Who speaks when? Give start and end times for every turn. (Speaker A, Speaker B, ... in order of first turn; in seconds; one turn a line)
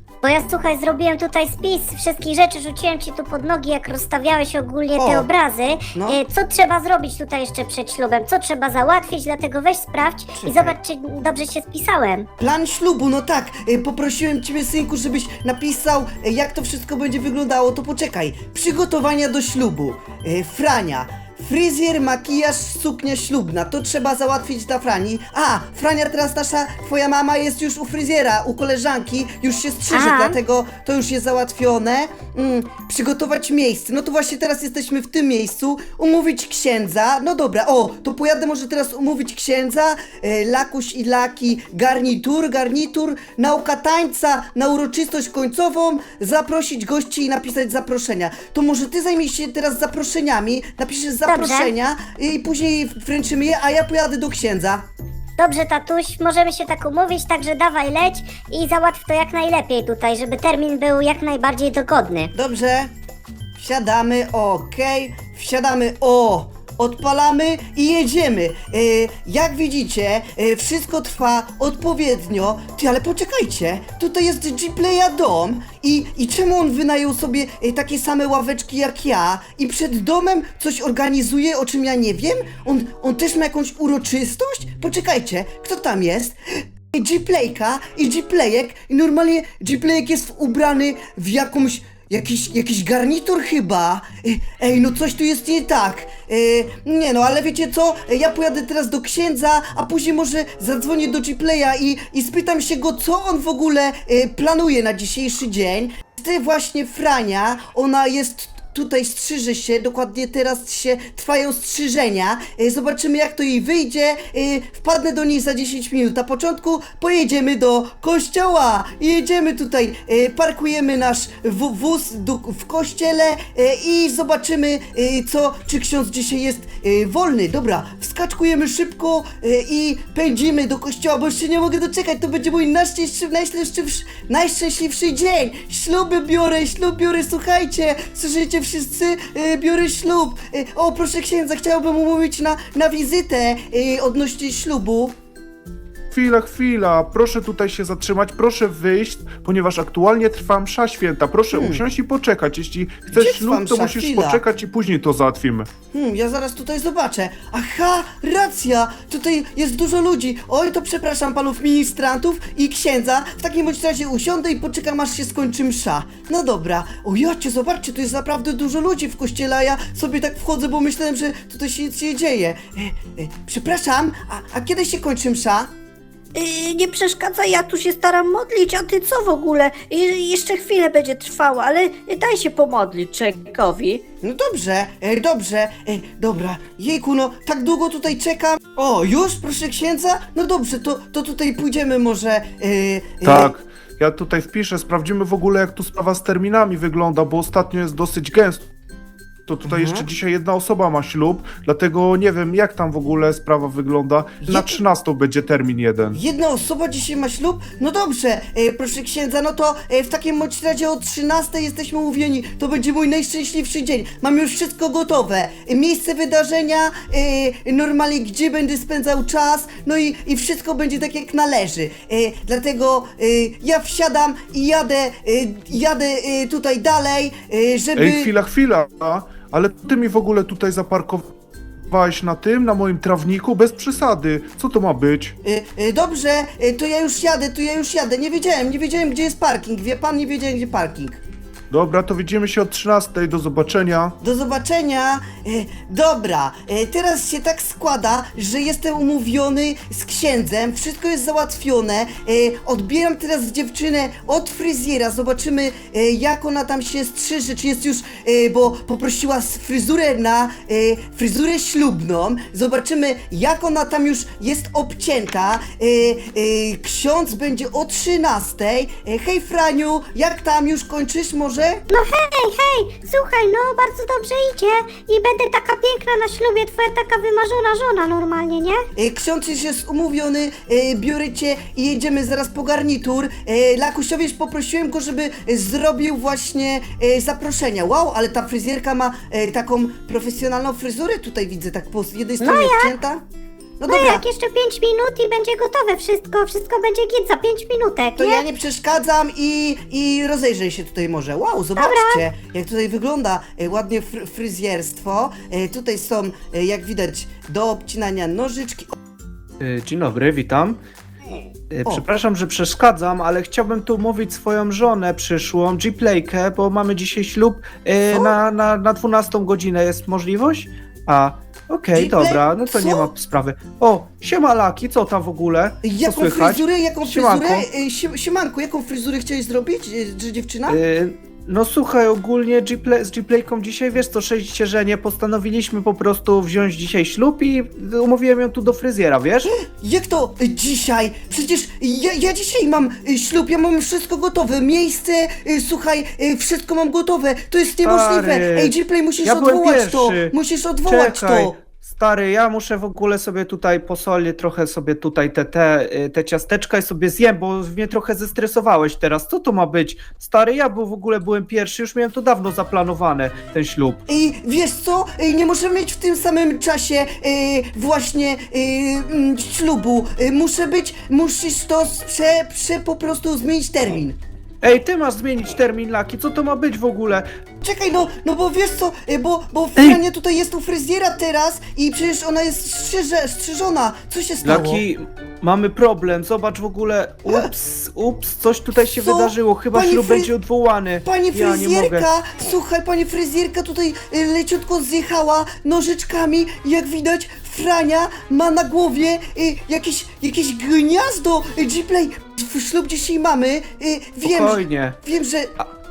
Speaker A: 0.2-12.3
Speaker B: 5.0-5.3
Speaker B: 5.9-6.2
Speaker B: 10.4-10.8
Speaker B: 12.4-54.9
Speaker A: 29.9-30.4
Speaker A: 51.3-51.7
Speaker A: 55.4-62.3
Speaker B: 62.4-62.9
Speaker B: 63.6-145.1
Speaker C: 146.1-155.7
Speaker B: 151.5-151.8
Speaker B: 153.1-154.4
Speaker B: 155.9-175.7
Speaker D: 176.3-184.0
Speaker B: 184.2-193.5
Speaker C: 193.2-198.7
Speaker C: 199.5-206.2
Speaker B: 199.7-200.1
Speaker B: 204.4-204.8
Speaker B: 206.1-228.3
Speaker C: 228.0-231.3
Speaker C: 231.9-235.4
Speaker B: 235.4-241.2
Speaker C: 241.7-244.2
Speaker B: 244.2-271.8
Speaker A: 271.9-278.8
Speaker B: 279.0-293.2
Speaker A: 292.4-292.9
Speaker B: 293.8-294.2
Speaker A: 293.9-298.4
Speaker B: 298.2-308.9
Speaker A: 301.8-302.2
Speaker E: 309.6-310.8
Speaker E: 311.7-327.7
Speaker B: 318.1-318.4
Speaker B: 321.9-323.1
Speaker B: 325.8-330.8
Speaker E: 330.7-339.5
Speaker B: 339.5-351.6
Speaker E: 347.8-364.0
Speaker B: 364.1-374.2
Speaker E: 374.6-377.3
Speaker B: 377.6-384.8
Speaker E: 384.4-392.1
Speaker B: 389.0-390.3
Speaker B: 391.0-405.5
Speaker E: 404.2-405.0